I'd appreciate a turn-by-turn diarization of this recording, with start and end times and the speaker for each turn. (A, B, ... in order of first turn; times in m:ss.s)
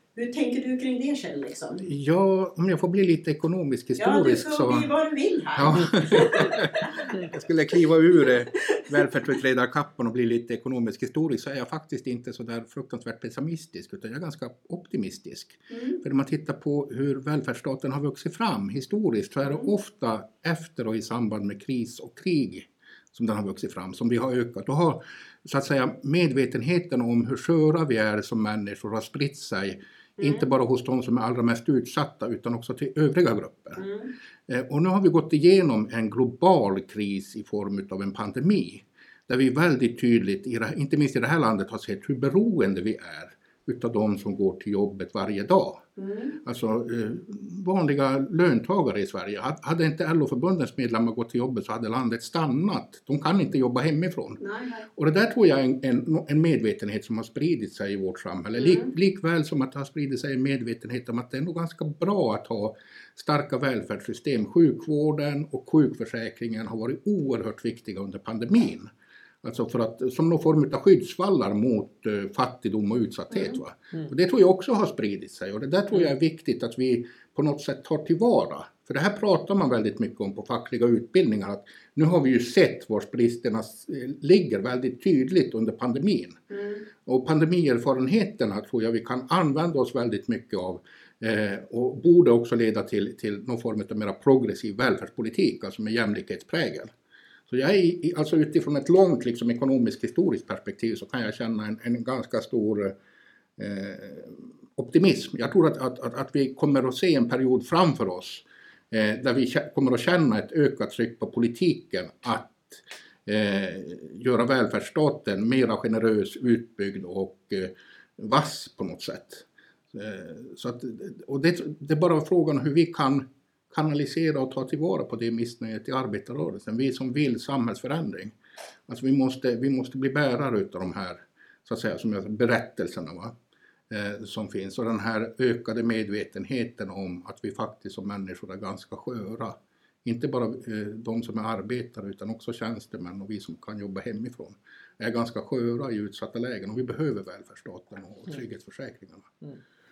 0:00.1-0:01.8 A
0:01.8-0:04.9 B
0:04.0-0:07.1 A
0:05.6-0:33.9 B
0:15.7-0:16.0 A
0:30.2-0:30.5 A
0:33.8-0:34.1 A
0:34.5-0:45.8 B
0:46.0-0:46.4 A
0:46.4-0:54.4 B
0:54.4-0:54.9 A
0:54.9-1:26.4 B
0:58.6-0:58.9 A
1:26.5-1:26.8 A
1:27.0-1:36.9 B
1:37.5-1:42.9 B
1:43.6-2:08.4 B
2:08.9-2:13.3 B
2:13.9-2:29.3 B